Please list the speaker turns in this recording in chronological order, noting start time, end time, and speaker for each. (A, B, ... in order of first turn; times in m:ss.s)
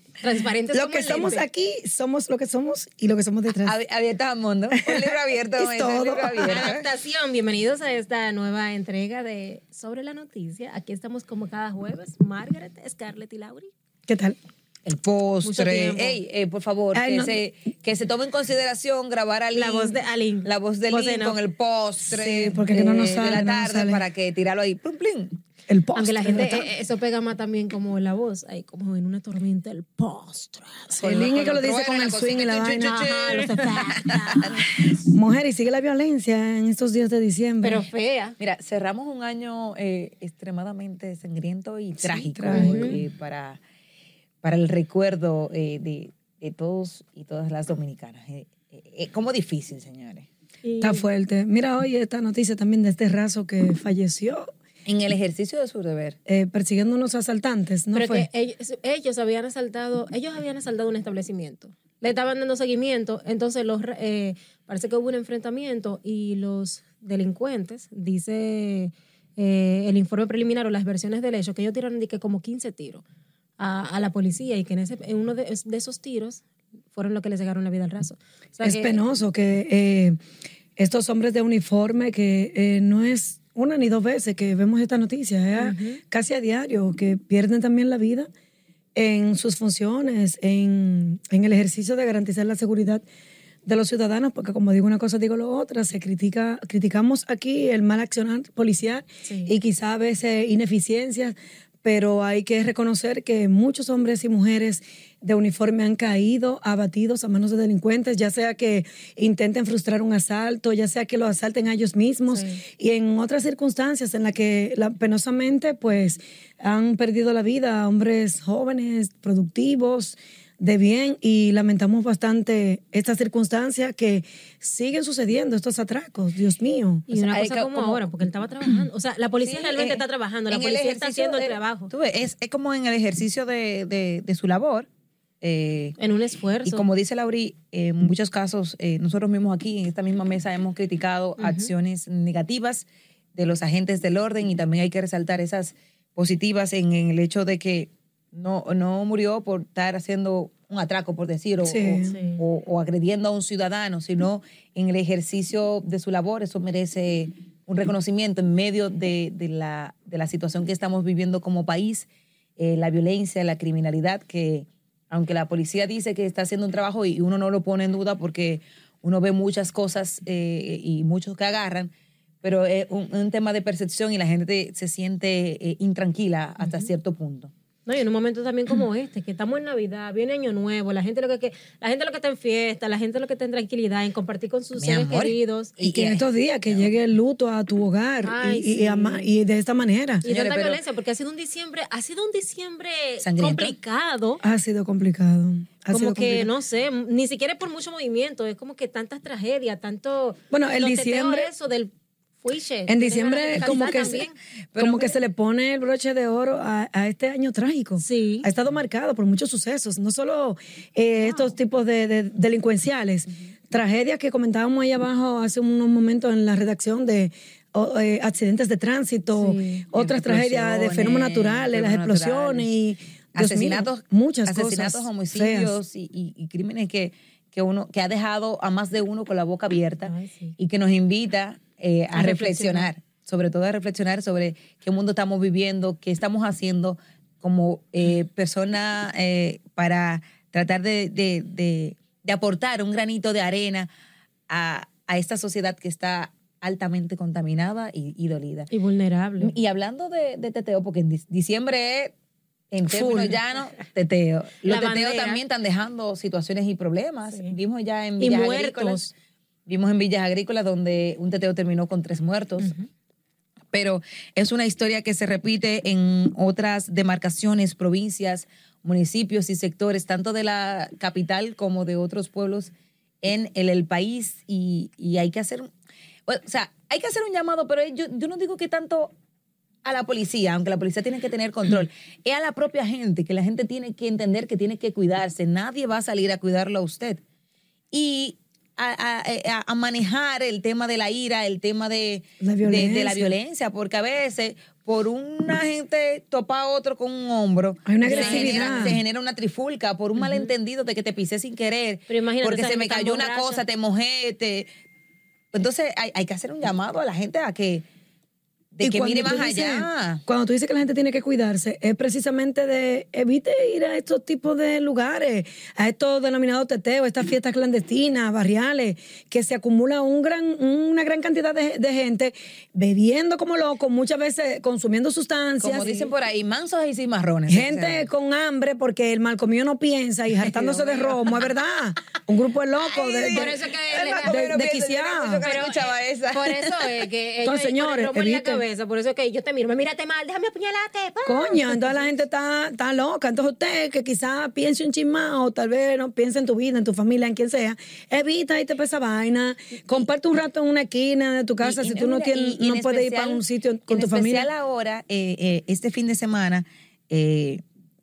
0:00.2-0:01.4 A
0:00.7-0:03.7 B
0:03.6-0:06.8 C
0:04.7-0:06.7 B
0:06.4-0:13.7 A
0:14.1-0:14.4 B
0:14.8-0:25.4 C
0:15.4-0:16.2 A
0:16.9-0:17.4 B
0:19.5-0:21.4 A
0:22.0-0:24.0 B
0:25.7-0:26.7 B
0:25.9-0:31.0 A
0:30.9-0:33.0 B
0:31.0-0:34.9 C
0:32.8-0:34.8 A
0:35.0-0:37.8 B
0:37.6-0:38.4 A
0:38.4-0:43.6 C
0:42.0-0:42.9 B
0:42.5-0:43.0 A
0:44.4-0:50.3 C
0:50.6-0:51.0 A
0:50.8-0:54.5 B
0:54.8-0:56.2 C
0:56.2-0:58.3 B
0:57.9-1:13.0 A
1:13.6-1:19.0 A
1:18.6-1:20.2 B
1:20.8-1:28.3 B
1:25.5-1:26.0 A
1:28.9-1:33.0 B
1:33.6-2:07.1 B
1:39.2-1:39.5 A
1:52.3-1:52.6 A
2:07.1-2:11.9 A
2:07.1-2:08.0 C
2:09.4-2:14.9 C
2:15.4-2:16.0 C
2:16.0-2:16.8 A
2:16.6-2:51.9 C
2:21.4-2:21.7 A
2:31.6-2:32.1 B
2:32.0-2:32.4 A
2:52.4-2:57.5 C
2:57.8-3:05.7 A
3:04.8-3:06.8 C
3:05.8-3:10.2 B
3:08.2-3:09.3 A
3:10.2-3:14.4 A
3:10.2-3:10.8 C
3:13.2-3:13.7 C
3:14.4-3:16.5 B
3:15.9-3:24.3 A
3:20.5-3:21.5 B
3:22.9-3:24.2 B
3:23.6-3:25.2 C
3:24.8-3:45.7 B
3:28.0-3:28.5 A
3:39.3-3:39.8 A
3:39.9-3:42.7 C
3:43.3-4:03.9 C
3:50.0-3:50.5 A
3:52.1-3:52.9 A
4:04.5-4:08.7 C
4:08.7-4:09.5 A
4:09.4-4:12.1 C
4:12.7-4:19.1 C
4:13.0-4:13.3 B
4:14.6-4:15.4 A
4:18.2-4:19.1 A
4:19.7-4:22.7 C
4:22.6-4:22.9 A
4:23.7-4:35.7 C
4:36.3-4:39.1 C
4:39.8-4:47.2 C
4:47.9-5:04.7 C
4:52.4-4:53.3 B
4:57.8-4:59.0 B
4:58.0-4:58.9 A
5:00.2-5:00.5 A
5:02.1-5:03.6 A
5:05.5-5:07.8 C
5:08.7-5:10.2 C
5:08.8-5:26.1 B
5:25.6-5:28.0 C
5:27.5-5:33.6 B
5:30.5-5:31.2 C
5:32.9-5:37.0 C
5:33.2-5:34.4 A
5:34.2-5:35.4 B
5:35.4-5:42.1 A
5:37.4-5:38.6 B
5:41.2-5:54.5 B
5:51.6-5:57.6 C